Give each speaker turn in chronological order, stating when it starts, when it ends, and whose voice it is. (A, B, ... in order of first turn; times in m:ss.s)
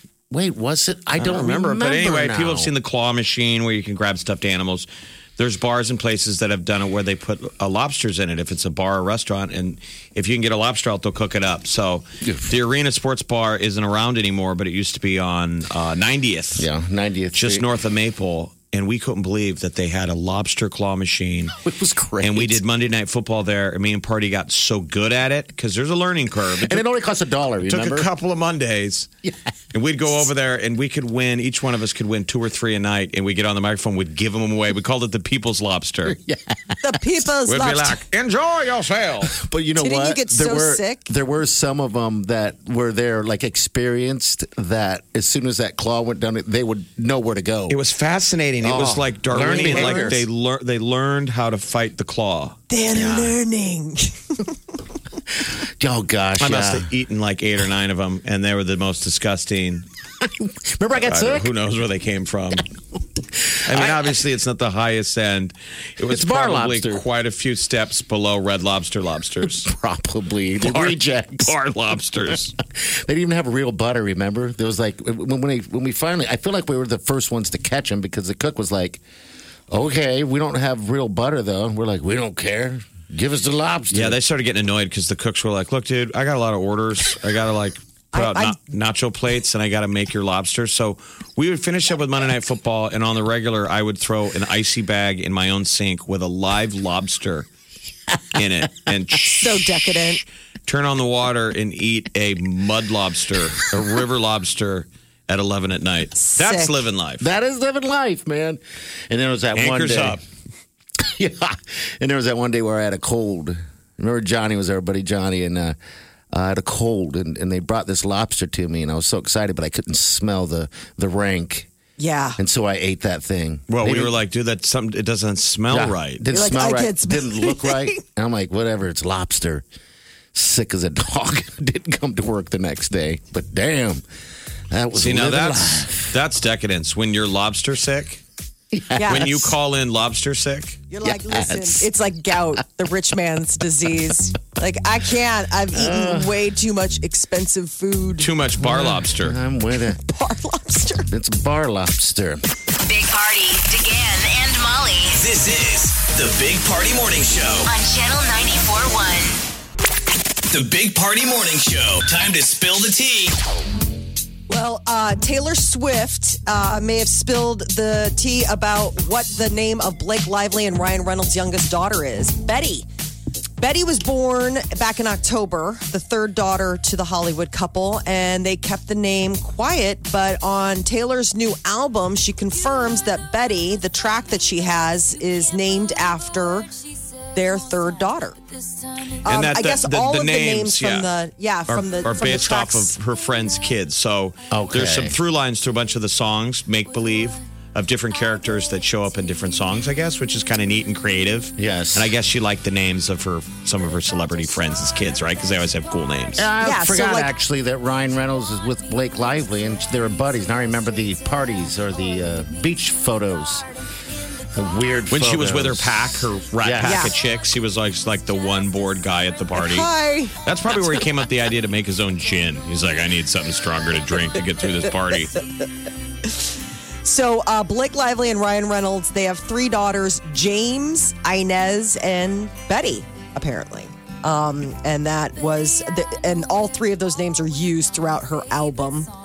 0:00.3-0:02.7 A
0:01.2-0:16.7 B
0:12.2-0:12.5 A
0:16.6-0:17.7 A
0:17.3-0:21.5 B
0:21.6-0:22.6 A
0:22.2-0:26.8 B
0:26.6-0:28.1 A
0:27.6-0:29.1 B
0:29.7-0:36.2 B
0:36.0-0:36.8 A
0:36.8-0:38.0 C
0:37.5-0:39.4 B
0:39.3-0:47.8 A
0:39.8-0:41.1 C
0:47.7-0:52.6 B
0:48.6-0:50.2 A
0:49.4-0:50.2 C
0:52.7-0:54.2 C
0:52.9-0:53.4 A
0:55.6-0:56.9 A
0:56.4-0:59.8 B
1:00.2-1:01.5 A
1:01.0-1:02.6 B
1:03.6-1:09.7 B
1:03.7-1:04.0 A
1:06.1-1:07.0 A
1:09.4-1:11.6 A
1:10.6-1:12.6 B
1:12.2-1:19.0 A
1:19.7-1:24.2 A
1:23.9-1:37.5 B
1:28.1-1:28.6 C
1:38.3-1:39.6 B
1:39.2-1:40.2 C
1:40.6-1:47.2 B
1:46.2-1:46.7 C
1:47.2-1:50.2 A
1:49.5-1:50.2 B
1:51.0-1:55.8 A
1:56.3-2:01.7 A
2:02.0-2:02.4 C
2:02.4-2:04.1 A
2:03.7-2:06.2 B
2:05.7-2:09.6 A
2:06.3-2:08.0 C
2:10.3-2:14.0 A
2:14.7-2:16.1 A
2:15.0-2:18.2 B
2:18.7-2:19.5 A
2:18.9-2:19.4 C
2:19.1-2:20.8 B
2:20.9-2:28.3 C
2:21.0-2:21.9 A
2:25.7-2:26.4 A
2:28.2-2:29.4 B
2:28.6-2:30.0 A
2:30.1-2:31.1 C
2:31.1-2:32.4 A
2:32.8-2:35.2 D
2:35.1-2:37.7 E
2:37.7-2:39.4 D
2:40.5-2:43.3 E
2:44.5-2:52.9 C
2:53.6-3:06.7 C
3:07.3-3:08.4 C
3:09.2-3:11.1 B
3:09.2-3:12.9 C
3:11.7-3:26.5 B
3:14.5-3:15.2 A
3:21.6-3:22.1 A
3:26.3-3:33.7 A
3:26.6-3:27.3 C
3:34.5-3:37.1 A
3:35.1-3:39.9 B
3:36.8-3:37.1 C
3:39.5-3:40.4 C
3:40.4-3:45.4 B
3:47.0-3:59.1 C